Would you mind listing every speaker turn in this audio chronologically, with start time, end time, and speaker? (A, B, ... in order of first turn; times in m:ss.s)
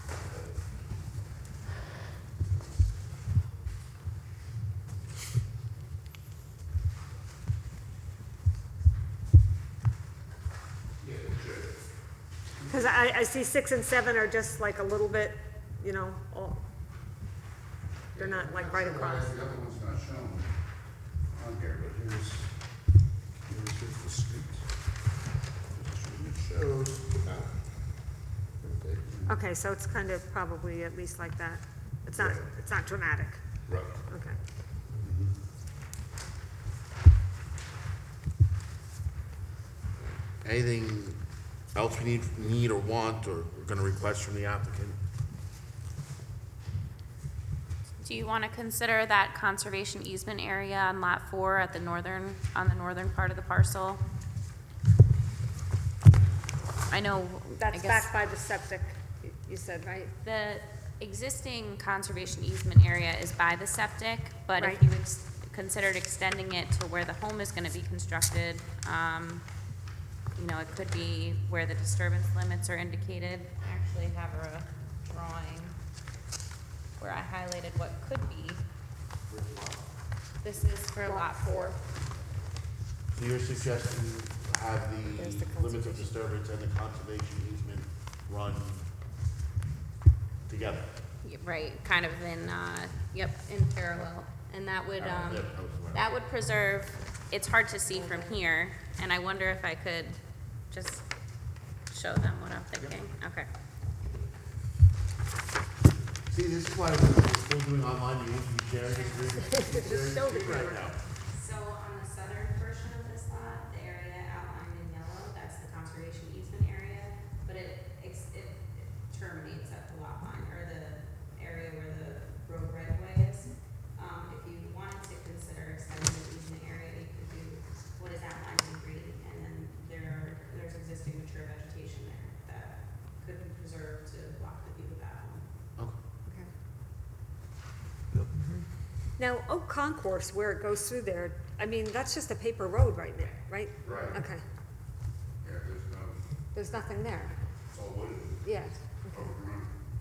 0:11.0-0:11.8 A
0:12.6-0:13.0 A
0:12.7-0:16.6 B
0:18.2-0:20.5 A
0:18.2-0:19.5 B
0:21.3-0:22.6 A
0:23.5-0:24.7 A
0:25.7-0:27.5 A
0:28.6-0:29.4 A
0:29.3-0:33.4 B
0:32.2-0:32.6 A
0:33.7-0:34.1 A
0:34.1-0:34.4 B
0:40.4-0:41.2 C
0:41.7-0:45.0 C
0:48.0-0:54.0 D
0:56.9-0:58.1 D
0:57.6-1:00.1 B
1:00.2-1:09.4 D
1:04.6-1:04.8 B
1:10.4-1:15.8 D
1:17.0-1:18.6 D
1:19.4-1:19.7 A
1:20.4-1:21.8 D
1:21.1-1:21.8 B
1:23.1-1:28.8 C
1:25.2-1:26.1 B
1:30.5-1:30.9 C
1:31.2-1:40.2 D
1:35.0-1:36.0 C
1:40.7-1:41.0 D
1:41.9-1:43.5 D
1:46.3-1:51.0 C
1:48.9-1:49.4 D
1:49.5-1:50.9 B
1:51.3-2:15.4 D
2:19.2-2:24.4 B
2:23.8-2:24.2 A
2:25.4-2:26.2 A
2:26.5-2:27.4 B
2:27.7-2:28.5 A
2:28.4-2:29.3 B
2:29.1-2:29.7 A